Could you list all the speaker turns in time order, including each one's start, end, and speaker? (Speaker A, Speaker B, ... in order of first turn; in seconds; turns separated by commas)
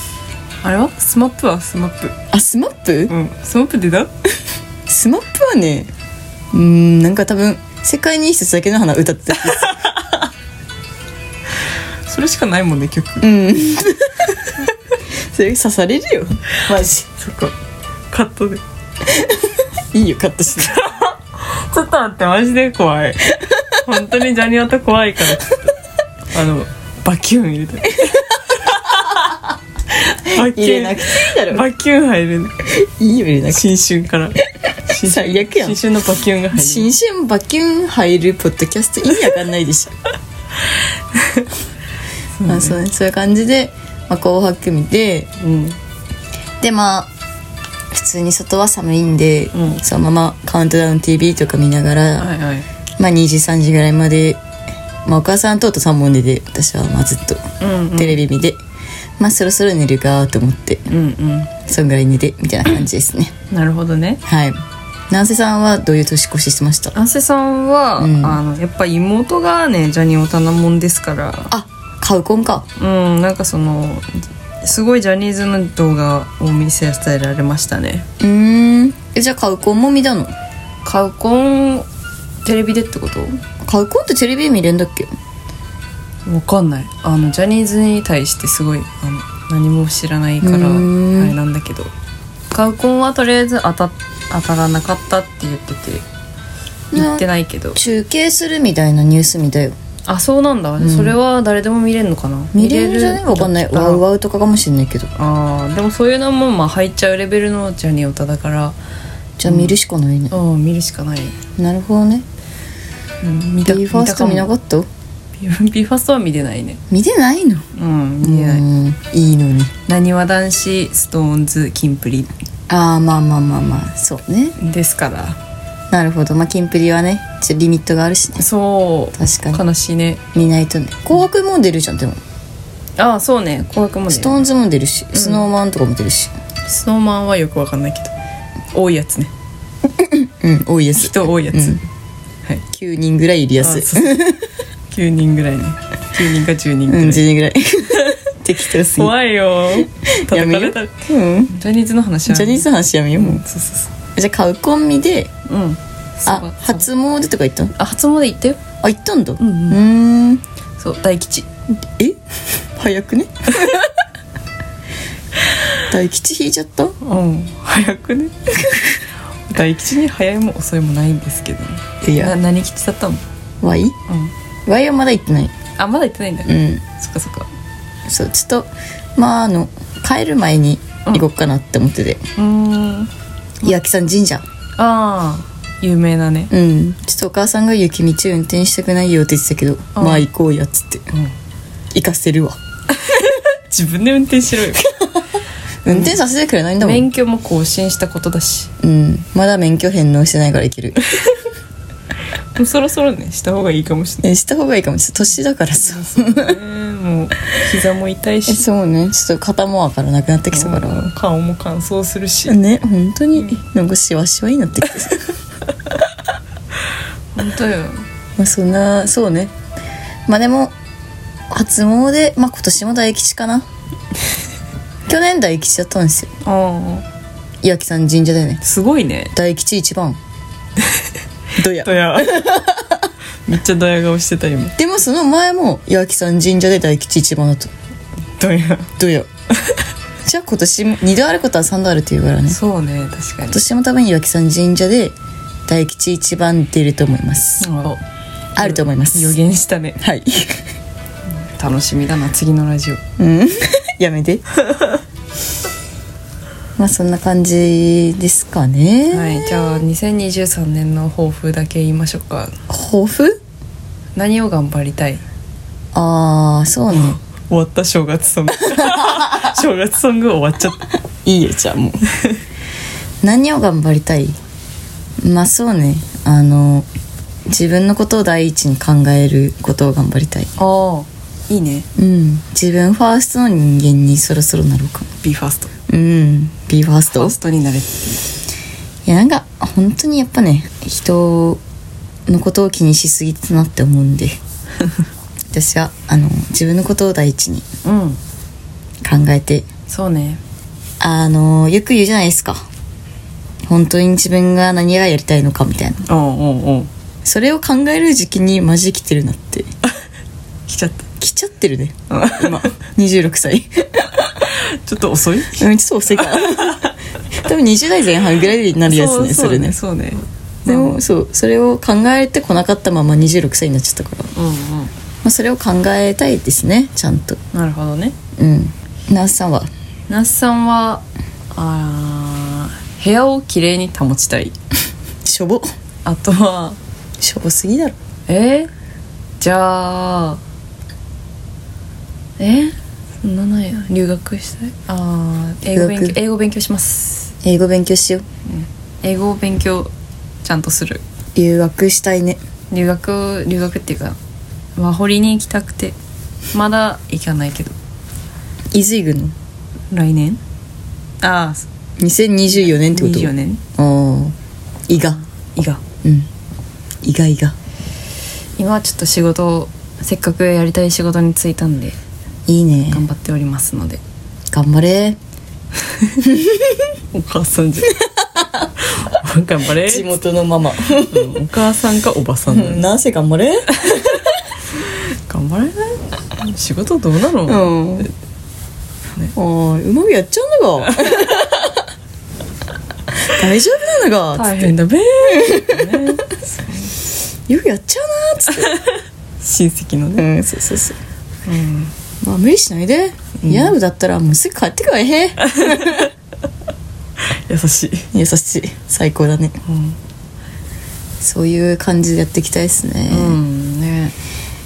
Speaker A: 0.6-2.1, Speaker B: 2.3-3.1, Speaker A: 3.1-4.1, Speaker B: 4.9-5.9, Speaker B: 6.5-9.8, Speaker A: 9.6-10.2, Speaker A: 12.1-13.3, Speaker B: 13.2-14.3, Speaker B: 15.3-17.1, Speaker A: 17.2-17.5, Speaker A: 18.1-18.6, Speaker B: 19.1-20.8, Speaker A: 20.6-25.7, Speaker B: 23.4-23.8, Speaker A: 26.3-29.4, Speaker B: 28.0-28.5, Speaker A: 29.9-32.6, Speaker B: 30.3-31.7, Speaker B: 32.6-33.7, Speaker A: 33.5-36.9, Speaker B: 34.9-35.8, Speaker B: 36.5-40.0, Speaker A: 41.1-41.5, Speaker A: 42.4-42.8, Speaker B: 42.5-45.3, Speaker A: 45.4-45.8, Speaker B: 46.6-47.1, Speaker B: 47.9-52.3, Speaker A: 49.5-49.8, Speaker A: 52.2-52.7, Speaker B: 53.0-54.4, Speaker B: 55.0-57.4, Speaker A: 57.6-58.2, Speaker B: 57.9-58.6, Speaker B: 59.2-60.9, Speaker A: 60.9-61.5, Speaker B: 61.7-63.3, Speaker A: 63.5-64.2, Speaker B: 64.3-66.9, Speaker A: 66.9-71.5, Speaker B: 68.0-68.4, Speaker B: 71.5-72.7, Speaker A: 72.8-78.0, Speaker B: 78.2-80.3, Speaker A: 80.8-81.9, Speaker A: 82.5-83.4, Speaker B: 83.7-85.1, Speaker A: 86.3-91.9, Speaker B: 90.4-91.4, Speaker A: 92.5-96.0, Speaker B: 96.9-99.8, Speaker A: 97.0-97.9, Speaker A: 100.1-104.0, Speaker B: 100.8-101.2, Speaker B: 102.5-105.1, Speaker A: 105.2-108.8, Speaker B: 109.4-110.3, Speaker A: 109.5-109.8, Speaker A: 110.3-111.4, Speaker B: 111.6-112.2, Speaker A: 113.2-114.5, Speaker B: 113.7-114.9, Speaker A: 115.4-116.8, Speaker B: 116.9-117.7, Speaker A: 117.7-118.6, Speaker B: 118.2-119.7, Speaker A: 119.9-122.3, Speaker B: 122.7-124.6, Speaker A: 124.6-125.4, Speaker B: 125.9-128.4, Speaker A: 128.4-130.2, Speaker B: 129.2-129.6, Speaker B: 130.3-132.2, Speaker A: 133.0-134.4, Speaker B: 134.1-136.3, Speaker A: 135.1-135.5, Speaker A: 136.7-138.1, Speaker A: 138.7-139.3, Speaker B: 140.0-141.8, Speaker A: 141.0-141.8, Speaker B: 142.7-144.5, Speaker A: 143.6-144.4, Speaker A: 144.9-147.2, Speaker B: 146.9-149.2, Speaker A: 147.9-148.2, Speaker A: 148.8-153.9, Speaker B: 150.1-151.6, Speaker B: 152.3-153.4, Speaker B: 154.2-155.3, Speaker A: 155.5-156.9, Speaker B: 156.3-157.8, Speaker A: 157.8-158.6, Speaker B: 158.8-160.4, Speaker A: 159.4-159.8, Speaker A: 160.8-161.5, Speaker B: 162.7-163.9, Speaker B: 165.9-167.0, Speaker A: 167.0-173.2, Speaker B: 172.0-172.3, Speaker B: 173.6-174.0, Speaker B: 174.7-175.5, Speaker A: 175.8-177.5, Speaker B: 176.5-176.8, Speaker B: 178.1-182.2, Speaker A: 182.4-183.1, Speaker B: 183.6-184.4, Speaker A: 184.8-186.5, Speaker B: 186.5-191.1, Speaker A: 189.9-190.3, Speaker B: 191.9-192.6, Speaker A: 192.9-195.1, Speaker B: 195.8-197.1, Speaker A: 195.9-196.2, Speaker A: 196.8-198.7, Speaker B: 198.8-201.0, Speaker A: 202.6-204.3, Speaker B: 204.2-206.6, Speaker A: 205.8-208.7, Speaker B: 208.5-211.1, Speaker A: 210.5-212.6, Speaker B: 212.5-215.3, Speaker A: 217.4-218.1, Speaker B: 218.4-219.5, Speaker B: 220.3-220.7, Speaker B: 221.5-223.7, Speaker B: 225.1-226.3, Speaker A: 226.4-227.0, Speaker B: 227.6-228.6, Speaker A: 228.6-229.3, Speaker B: 229.3-230.2, Speaker B: 231.6-233.1, Speaker A: 231.7-232.6, Speaker A: 233.5-234.7, Speaker B: 234.8-237.7, Speaker A: 238.4-238.9, Speaker B: 239.0-239.3, Speaker B: 240.2-242.6, Speaker A: 242.5-243.6, Speaker B: 243.5-245.2, Speaker B: 245.7-247.7, Speaker A: 247.6-248.0, Speaker B: 248.6-249.4, Speaker A: 248.6-250.0, Speaker B: 250.0-250.6, Speaker A: 251.4-253.0, Speaker B: 253.2-254.4, Speaker B: 256.8-259.8, Speaker A: 259.1-262.6, Speaker B: 262.7-263.4, Speaker A: 264.2-265.2, Speaker B: 265.9-267.2, Speaker A: 266.9-270.9, Speaker B: 268.8-269.5, Speaker B: 271.2-272.0, Speaker B: 273.2-274.4, Speaker B: 275.2-276.9, Speaker B: 277.5-280.5, Speaker A: 280.6-281.9, Speaker B: 282.0-285.1, Speaker A: 285.2-285.7, Speaker B: 285.9-287.4, Speaker A: 287.1-288.3, Speaker B: 289.1-291.6, Speaker B: 292.3-294.4, Speaker B: 295.5-297.6, Speaker A: 297.8-298.2, Speaker B: 299.0-299.7, Speaker A: 299.9-300.4, Speaker B: 301.0-302.7, Speaker B: 303.6-306.0, Speaker A: 306.1-306.9, Speaker B: 307.2-309.7, Speaker A: 310.7-311.1, Speaker B: 311.2-314.3, Speaker A: 312.1-312.7, Speaker A: 314.4-315.6, Speaker B: 315.6-319.8, Speaker A: 316.4-316.9, Speaker A: 318.9-321.0, Speaker B: 320.7-324.3, Speaker A: 324.4-324.9, Speaker B: 325.2-327.4, Speaker A: 327.5-328.1, Speaker B: 328.4-329.7, Speaker A: 330.1-331.0, Speaker A: 331.5-334.6, Speaker B: 335.2-335.7, Speaker A: 336.1-336.8, Speaker B: 337.2-338.0, Speaker A: 338.3-338.7, Speaker A: 339.4-340.4, Speaker A: 342.4-347.3, Speaker B: 345.7-346.2, Speaker B: 347.4-348.2, Speaker A: 348.5-349.9, Speaker A: 350.4-351.0, Speaker B: 351.4-352.4, Speaker A: 352.7-354.2, Speaker A: 354.8-355.9, Speaker A: 356.5-357.7, Speaker B: 358.7-359.4, Speaker A: 359.9-360.4, Speaker A: 361.2-361.7, Speaker B: 362.0-364.4, Speaker A: 362.6-363.6, Speaker B: 364.9-365.2, Speaker A: 365.0-365.8, Speaker B: 366.0-366.3, Speaker B: 367.0-367.6, Speaker A: 368.6-372.0, Speaker B: 372.5-373.0, Speaker A: 372.9-374.0, Speaker B: 374.5-375.2, Speaker A: 375.9-376.2, Speaker B: 376.2-376.9, Speaker A: 377.1-378.1, Speaker B: 378.0-378.5, Speaker A: 378.7-380.2, Speaker B: 379.8-381.4, Speaker A: 381.0-382.9, Speaker B: 382.5-383.7, Speaker A: 383.8-384.2, Speaker A: 384.8-388.1, Speaker B: 387.5-388.1, Speaker B: 389.4-391.8, Speaker B: 393.2-395.9, Speaker A: 394.4-396.9, Speaker B: 397.5-398.8, Speaker A: 398.7-400.3, Speaker B: 400.2-401.0, Speaker A: 401.5-401.9, Speaker B: 402.2-406.1, Speaker A: 403.4-403.8, Speaker A: 405.5-406.0, Speaker A: 407.5-408.1, Speaker B: 408.1-409.6, Speaker A: 409.7-410.0, Speaker B: 411.2-413.4, Speaker A: 413.1-414.1